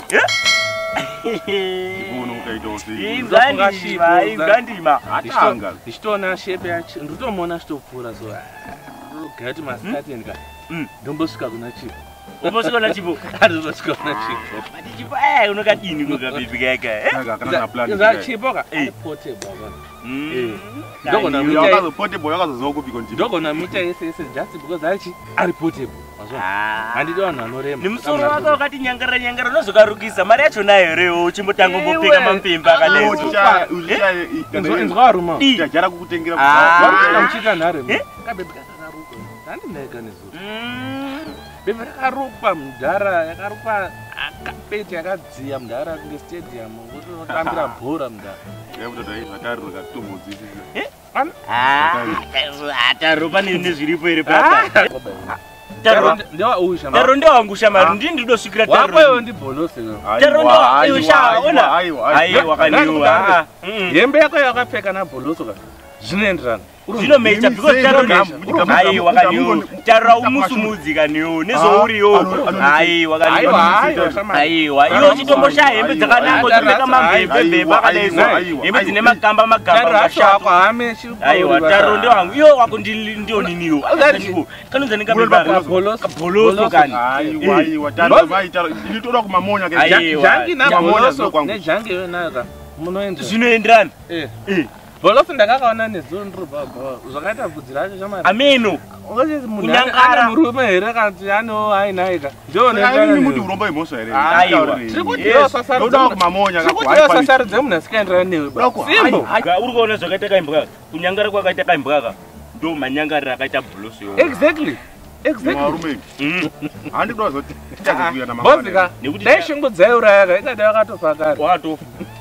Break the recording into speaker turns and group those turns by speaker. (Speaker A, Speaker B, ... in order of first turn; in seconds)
Speaker A: 0.9-5.1, 12.4-13.2, 14.2-17.2, 20.0-21.9, 26.3-27.2, 27.8-34.0, 35.3-35.7, 36.4-38.0, 40.3-41.4, 51.5-54.9, 55.8-56.2, 56.9-59.2, 60.1-64.0, 66.9-80.5, 81.2-88.3, 89.7-91.0, 93.2-93.9, 94.4-94.7, 98.2-98.8, 99.6-100.3, 104.2-105.6, 108.9-114.4, 116.2-116.5, 119.0-119.5, 121.3-121.8
Speaker B: 1.9-3.3, 5.1-5.8, 17.1-18.3, 21.1-23.8, 32.8-37.3, 47.3-47.7, 48.7-50.7, 51.7-52.2, 57.7-58.0, 60.0-63.2, 67.1-70.8, 71.5-74.2, 74.8-79.2, 85.0-85.8, 86.9-91.7, 102.7-107.5, 108.5-109.5, 115.4-116.0, 116.9-118.9
Speaker C: 3.1-4.6, 5.2-10.4, 11.0-14.6, 15.8-16.5, 17.4-21.9, 23.1-28.6, 31.6-33.7, 34.5-35.5, 36.5-40.4, 41.6-48.4, 54.2-57.1, 58.6-60.1, 60.9-61.5, 62.3-67.2, 67.8-69.1, 73.2-77.3, 78.1-78.5, 79.7-82.2, 83.3-84.4, 85.4-87.4, 88.0-88.4, 89.8-93.4, 94.1-94.3, 95.0-98.4, 98.9-103.5, 104.1-109.3, 114.2-115.8, 117.8-121.4